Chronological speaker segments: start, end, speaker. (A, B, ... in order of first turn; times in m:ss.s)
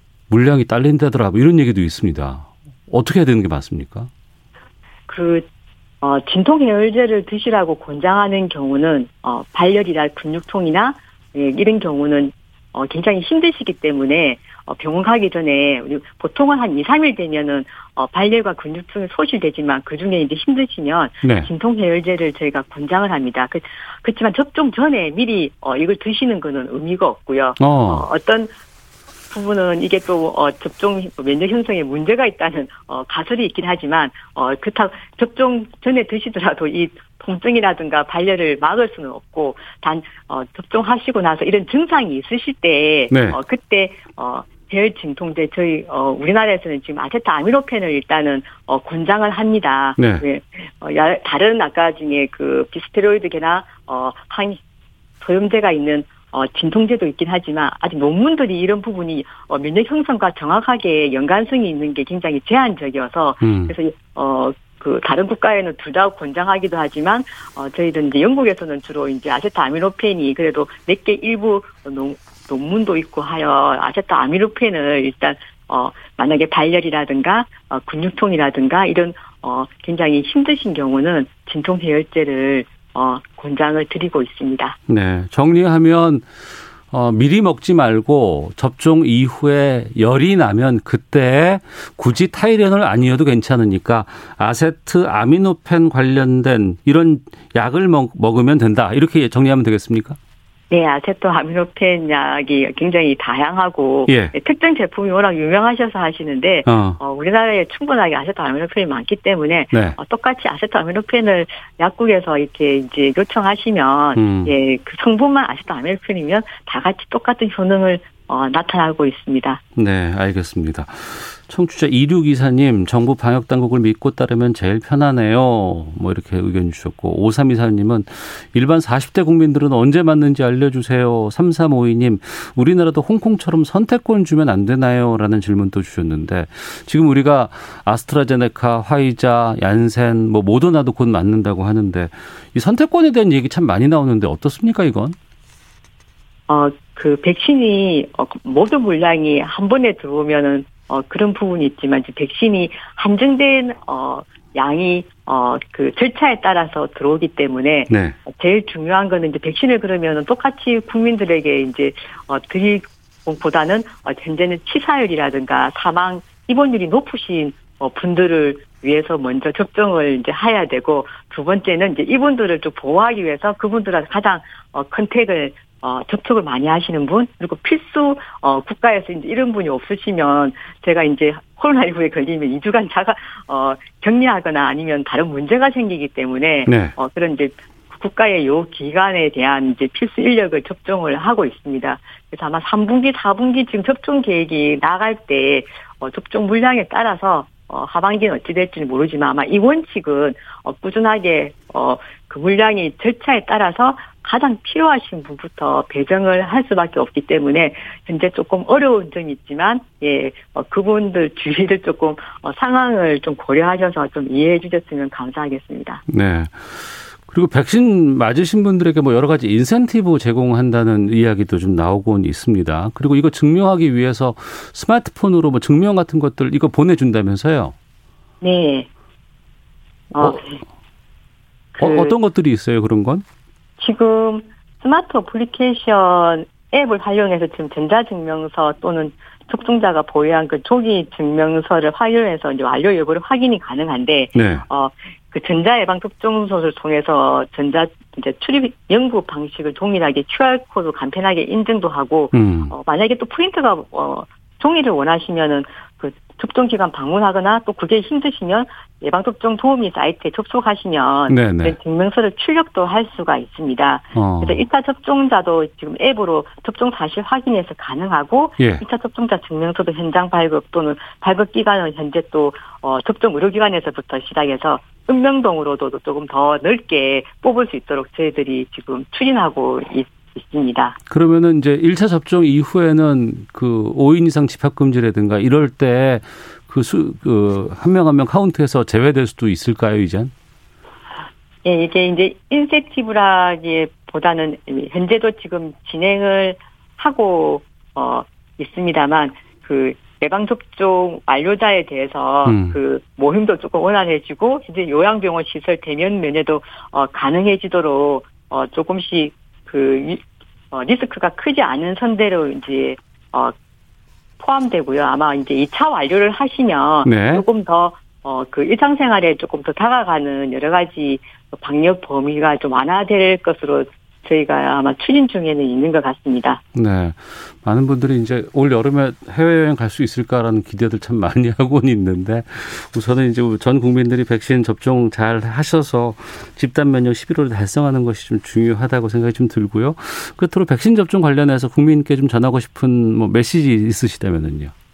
0:00.3-0:04.1 A
0:05.1-0:05.5 B
0:06.0-0:28.5 B
0:21.2-0:21.5 A
0:27.6-0:28.1 A
0:29.3-0:54.6 B
0:43.1-0:43.4 A
0:50.0-0:50.2 A
0:55.2-1:24.8 B
1:03.4-1:03.7 A
1:24.9-1:26.3 A
1:26.9-1:40.2 A
1:40.7-1:59.6 B
1:44.1-1:44.3 A
1:46.6-1:47.0 A
1:49.7-1:50.0 A
1:54.1-1:54.5 A
1:59.7-2:25.2 A
2:26.5-3:36.0 B
2:37.9-2:38.2 A
3:06.7-3:06.9 A
3:36.1-3:47.7 A
3:48.4-3:48.9 B
3:50.1-3:50.6 B
3:51.7-3:52.1 B
3:51.8-3:53.2 A
3:53.8-4:41.0 B
4:04.3-4:04.6 A
4:12.3-4:12.7 A
4:21.3-4:21.8 A
4:24.1-4:24.6 A
4:41.1-4:50.3 A
4:51.6-5:13.5 B
5:02.4-5:02.8 A
5:14.4-5:26.6 B
5:17.0-5:17.4 A
5:26.7-5:44.7 A